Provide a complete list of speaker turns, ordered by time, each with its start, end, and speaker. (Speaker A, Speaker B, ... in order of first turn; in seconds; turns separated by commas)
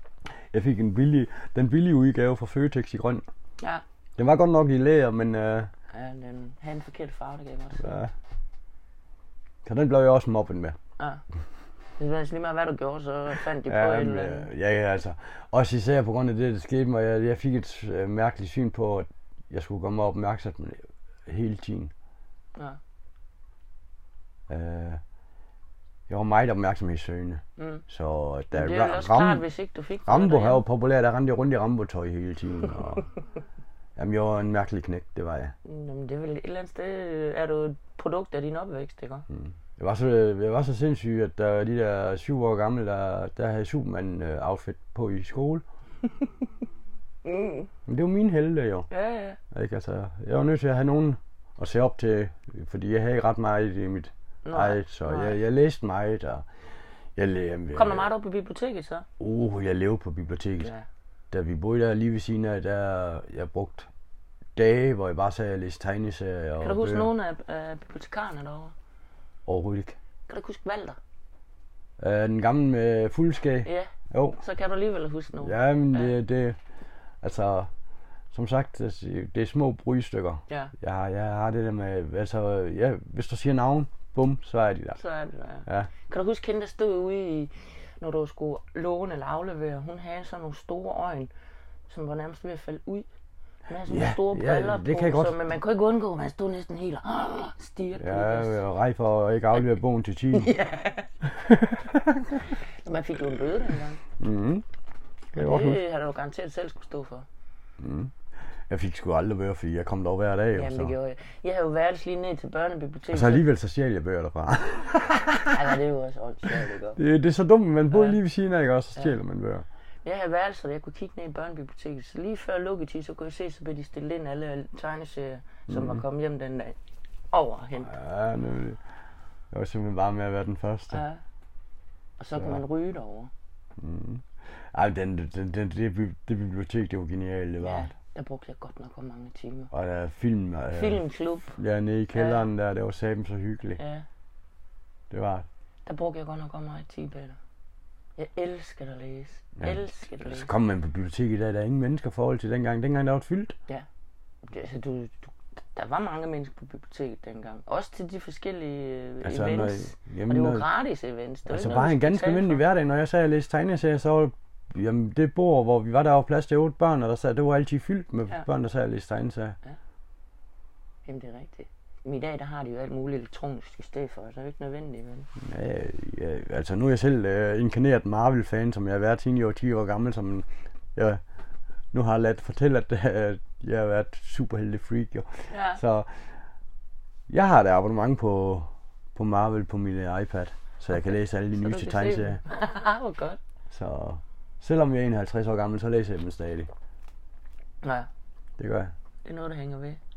Speaker A: 0.5-3.2, Speaker A: 4.2-5.7, Speaker B: 5.9-8.0, Speaker A: 7.8-8.1, Speaker A: 9.7-10.8, Speaker B: 12.0-14.5, Speaker A: 13.6-21.9, Speaker A: 24.5-25.0, Speaker A: 26.1-29.4, Speaker B: 27.6-27.8, Speaker B: 28.5-30.6, Speaker A: 30.1-33.1, Speaker A: 34.0-35.5, Speaker B: 35.6-39.3, Speaker A: 39.3-45.6, Speaker B: 47.2-47.7, Speaker A: 47.9-48.9, Speaker B: 48.9-49.4, Speaker A: 49.5-56.5, Speaker B: 54.5-55.4, Speaker A: 57.2-58.1, Speaker B: 57.7-59.1, Speaker A: 59.2-60.7, Speaker A: 61.3-63.9, Speaker A: 64.6-67.1, Speaker B: 66.6-68.7, Speaker A: 69.5-70.0, Speaker B: 70.3-71.0, Speaker A: 72.0-74.4, Speaker B: 73.6-76.2, Speaker A: 75.4-76.6, Speaker A: 77.2-77.7, Speaker A: 78.3-85.0, Speaker B: 85.0-91.3, Speaker B: 91.9-93.1, Speaker B: 93.7-98.6, Speaker A: 93.9-95.4, Speaker A: 98.0-100.5, Speaker B: 100.3-101.1, Speaker A: 101.3-102.4, Speaker B: 102.5-104.0, Speaker A: 104.2-104.6, Speaker A: 105.3-105.8, Speaker B: 105.3-107.3, Speaker A: 107.8-108.1, Speaker A: 108.7-110.9, Speaker B: 110.5-113.5, Speaker A: 113.1-115.8, Speaker B: 115.5-117.0, Speaker A: 116.5-119.7, Speaker B: 117.9-118.2, Speaker B: 120.0-126.8, Speaker A: 125.7-126.0, Speaker B: 127.3-128.0, Speaker A: 127.8-128.8, Speaker A: 129.5-131.0, Speaker B: 130.9-131.2, Speaker B: 132.2-133.3, Speaker A: 133.8-137.9, Speaker B: 137.6-139.7, Speaker A: 139.7-141.0, Speaker B: 140.7-141.6, Speaker A: 141.5-143.8, Speaker B: 142.1-142.4, Speaker B: 143.8-144.1, Speaker A: 145.1-145.5, Speaker B: 145.9-147.4, Speaker B: 148.2-150.5, Speaker A: 149.6-153.6, Speaker B: 154.4-162.6, Speaker A: 159.2-160.7, Speaker A: 161.5-169.6, Speaker B: 171.1-175.3, Speaker A: 175.4-181.2, Speaker A: 181.9-186.1, Speaker B: 185.5-185.8, Speaker A: 187.3-192.4, Speaker B: 190.9-193.4, Speaker A: 193.7-196.7, Speaker B: 197.8-198.1, Speaker A: 198.6-198.9, Speaker B: 199.2-200.0